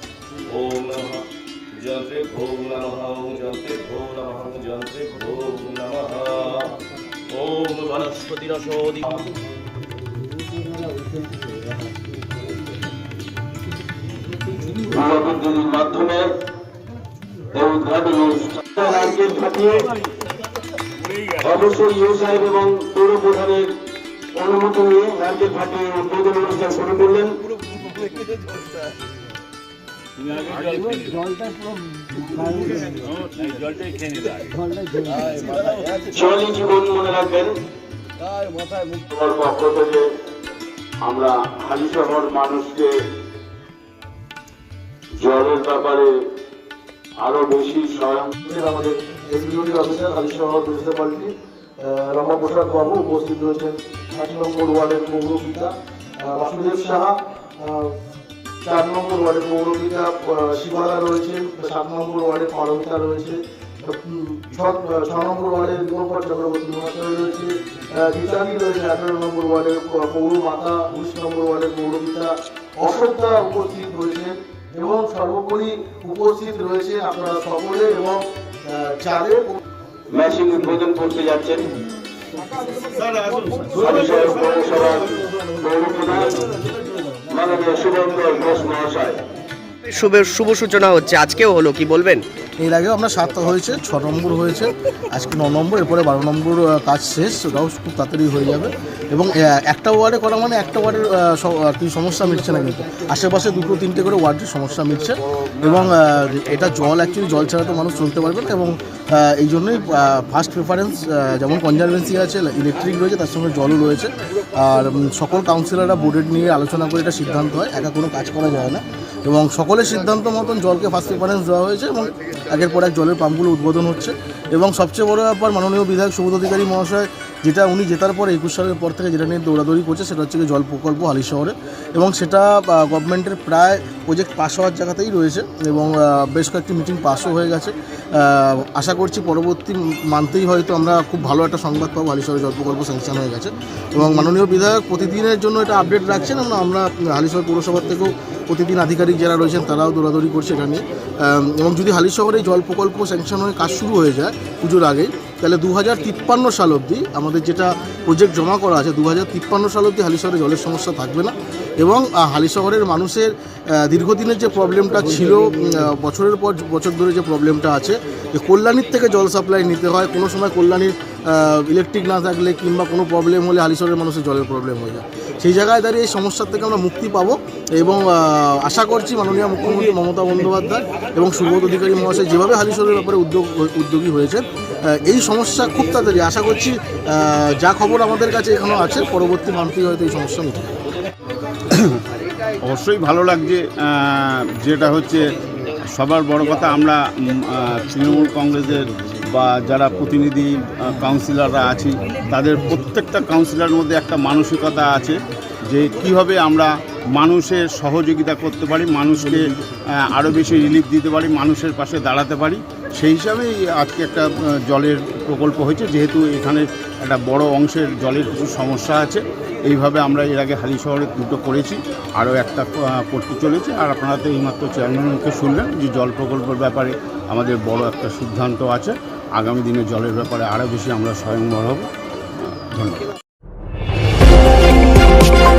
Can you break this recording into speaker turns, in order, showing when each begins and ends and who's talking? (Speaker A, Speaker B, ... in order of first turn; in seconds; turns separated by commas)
Speaker A: 0.5-1.2, Speaker A: 1.8-6.7, Speaker A: 7.3-9.3, Speaker B: 14.9-16.3, Speaker B: 17.5-19.9, Speaker B: 21.4-23.7, Speaker B: 24.3-27.3, Speaker A: 30.3-31.1, Speaker A: 33.4-34.3, Speaker A: 35.1-36.0, Speaker B: 36.0-37.6, Speaker B: 38.9-40.0, Speaker B: 41.0-42.9, Speaker B: 45.2-46.1, Speaker B: 47.2-48.3, Speaker C: 48.4-58.0, Speaker C: 58.6-79.6, Speaker B: 80.1-81.6, Speaker D: 82.8-85.2, Speaker B: 83.8-86.6, Speaker B: 87.3-89.2, Speaker E: 89.9-92.2, Speaker C: 92.6-190.7, Speaker D: 191.7-192.0, Speaker D: 192.6-195.2, Speaker D: 195.9-205.1, Speaker D: 205.7-209.4, Speaker D: 210.1-231.9, Speaker D: 232.7-233.0